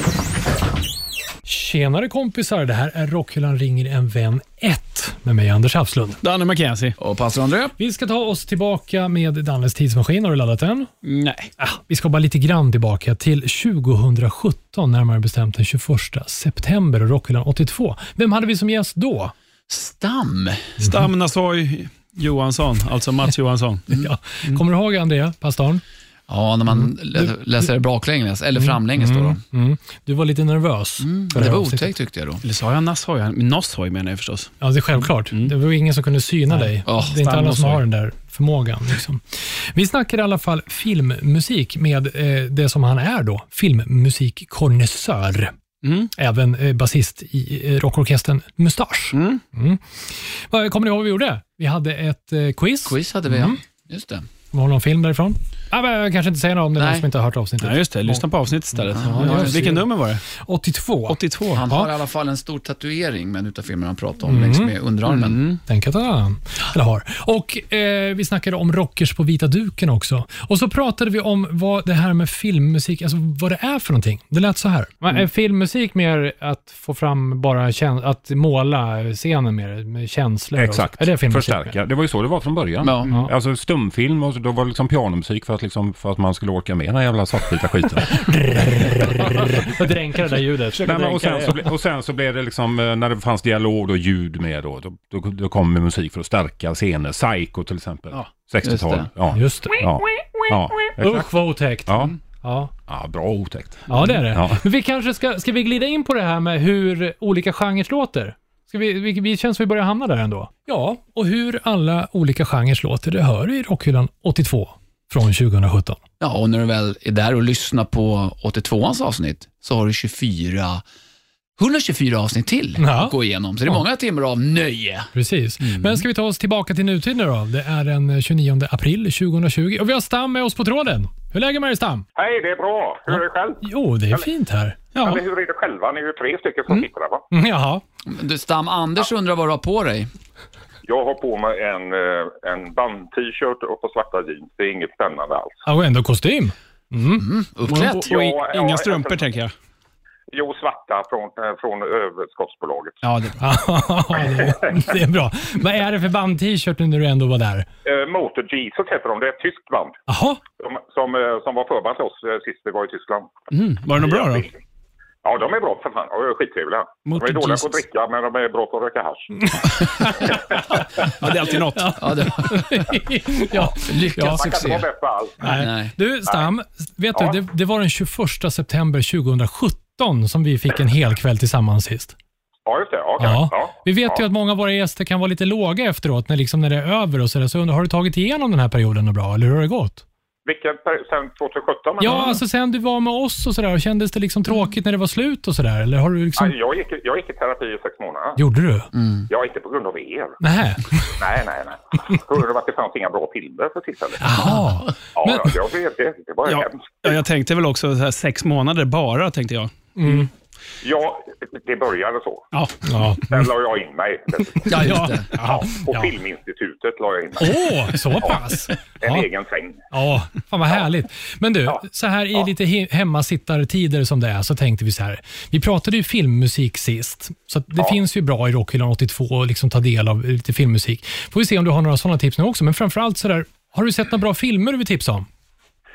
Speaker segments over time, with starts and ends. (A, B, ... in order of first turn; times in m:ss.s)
0:01.4-0:06.2 A
0:06.2-0:07.0 B
0:07.0-0:07.8 C
0:07.8-0:10.9 A
0:11.0-0:11.5 B
0:11.6-0:19.3 A
0:19.7-0:20.8 C
0:20.8-0:23.9 B
0:23.9-0:25.8 A
0:26.3-0:29.4 C
0:28.7-0:31.9 A
0:31.0-0:32.4 C
0:32.4-0:34.5 B
0:34.6-0:45.5 A
0:35.1-0:35.5 B
0:36.6-0:37.8 B
0:36.9-0:37.2 C
0:45.8-0:46.1 B
0:46.1-0:53.6 A
0:49.1-0:49.4 B
0:52.8-0:54.3 C
0:54.5-0:59.9 A
0:56.8-0:57.1 C
0:57.6-1:00.2 B
0:58.9-0:59.8 C
1:00.4-1:01.9 A
1:01.1-1:01.6 B
1:01.5-1:05.4 C
1:04.3-1:04.7 A
1:05.1-1:05.6 B
1:05.7-1:21.8 A
1:20.6-1:28.3 D
1:22.8-1:23.1 C
1:28.1-1:31.5 A
1:30.8-1:41.3 D
1:30.8-1:31.5 B
1:38.6-1:39.1 C
1:39.3-1:42.7 A
1:41.9-1:42.2 D
1:42.9-1:44.6 D
1:43.9-1:56.0 A
1:56.2-2:00.8 C
2:01.6-2:05.1 C
2:02.8-2:03.1 A
2:05.1-2:12.0 A
2:12.2-2:14.2 E
2:13.1-2:14.8 A
2:14.9-2:15.2 B
2:15.0-2:17.3 E
2:17.3-2:17.8 A
2:18.0-2:20.1 C
2:20.8-2:25.6 E
2:25.7-2:27.3 A
2:27.2-2:28.1 C
2:27.7-2:29.5 B
2:28.0-2:29.3 E
2:30.3-2:33.0 E
2:33.0-2:33.4 B
2:33.4-2:37.7 A
2:34.3-2:34.6 E
2:37.8-2:40.0 E
2:40.1-2:40.4 A
2:40.6-2:43.4 E
2:43.5-2:44.5 B
2:43.9-2:44.5 E
2:45.2-2:50.4 E
2:47.1-2:47.7 B
2:49.6-2:50.8 A
2:51.2-2:52.0 B
2:51.7-2:54.4 A
2:52.0-2:52.9 C
2:53.7-2:54.9 C
2:54.3-2:55.5 E
2:55.4-3:02.1 A
2:55.5-2:56.0 C
3:02.7-3:04.2 E
3:03.2-3:10.0 A
3:10.5-3:12.4 E
3:12.0-3:16.5 A
3:16.4-3:18.4 E
3:18.4-3:18.9 A
3:18.9-3:19.3 C
3:19.3-3:20.4 E
3:20.4-3:21.2 A
3:21.2-3:24.5 E
3:24.2-3:25.5 A
3:25.2-3:27.2 E
3:26.5-3:29.8 B
3:30.0-3:30.3 A
3:30.8-3:32.5 E
3:32.5-3:33.0 B
3:32.8-3:33.4 A
3:33.2-3:38.4 E
3:34.7-3:35.3 C
3:34.8-3:36.1 A
3:37.4-3:39.3 A
3:39.0-3:39.8 E
3:39.9-3:55.3 A